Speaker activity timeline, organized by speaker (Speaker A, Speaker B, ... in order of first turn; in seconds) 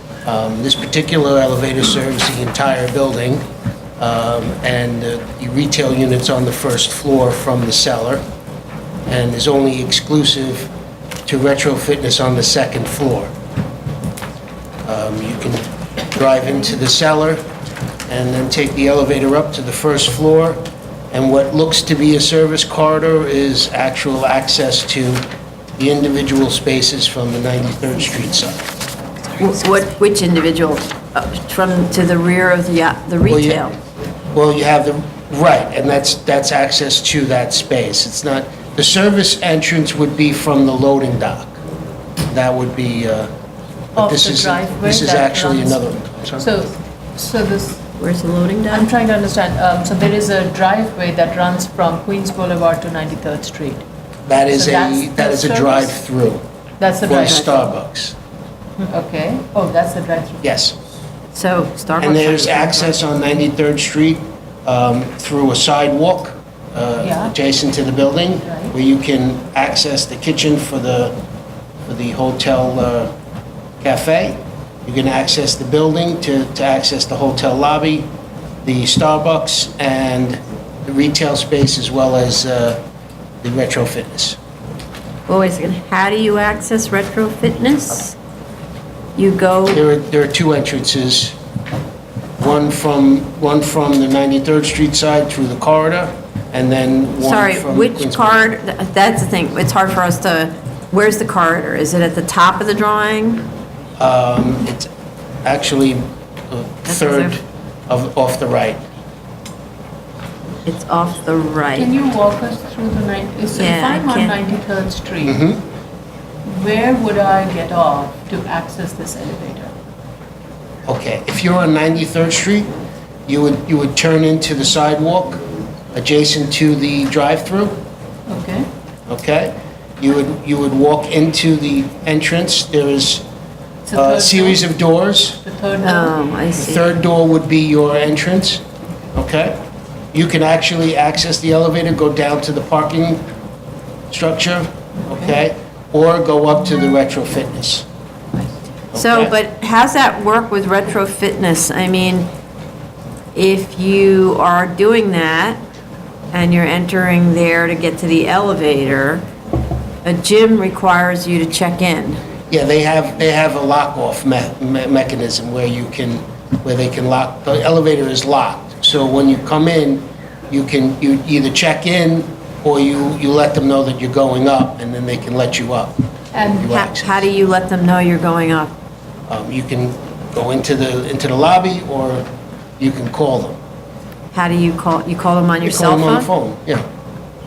Speaker A: 0.2-3.5, 4.0-8.2, 9.1-10.7, 11.3-13.3, 14.8-17.4, 18.1-20.6, 21.1-25.2, 25.8-28.6, 33.3-33.6, 34.3-41.6, 42.3-43.3, 44.0-46.5, 54.3-56.4, 57.1-58.1, 60.4-60.8, 62.0-71.2, 71.9-73.1, 73.8-78.1, 78.6-82.8, 83.4-84.4, 89.7-91.4, 92.4-98.5, 104.0-104.9, 105.4-108.8, 115.2-115.6, 120.9-122.7, 123.3-127.8, 129.1-133.2, 133.9-135.4, 136.6-138.6, 139.1-139.6, 140.1-143.2, 144.1-147.8, 148.9-149.3, 162.5-177.2, 179.3-182.2, 182.8-183.6, 185.6-186.8
Speaker B: 29.4-33.8, 48.0-48.9, 57.2-57.7, 61.3-63.0, 85.3-88.2, 89.2-89.8, 97.2-103.5, 106.9-107.4, 110.7-111.9, 113.6-114.4, 135.8-136.9, 148.9-152.3, 153.3-155.6, 156.3-159.2, 160.1-162.2, 176.7-178.7, 184.3-186.3
Speaker C: 44.0-45.9, 46.4-47.8, 48.7-53.8, 54.5-56.0, 56.8-57.5, 58.9-60.4, 67.0-67.3, 68.4-68.7, 111.8-115.4, 116.5-119.7, 128.3-128.7, 133.9-134.6, 135.4-136.1, 176.3-176.7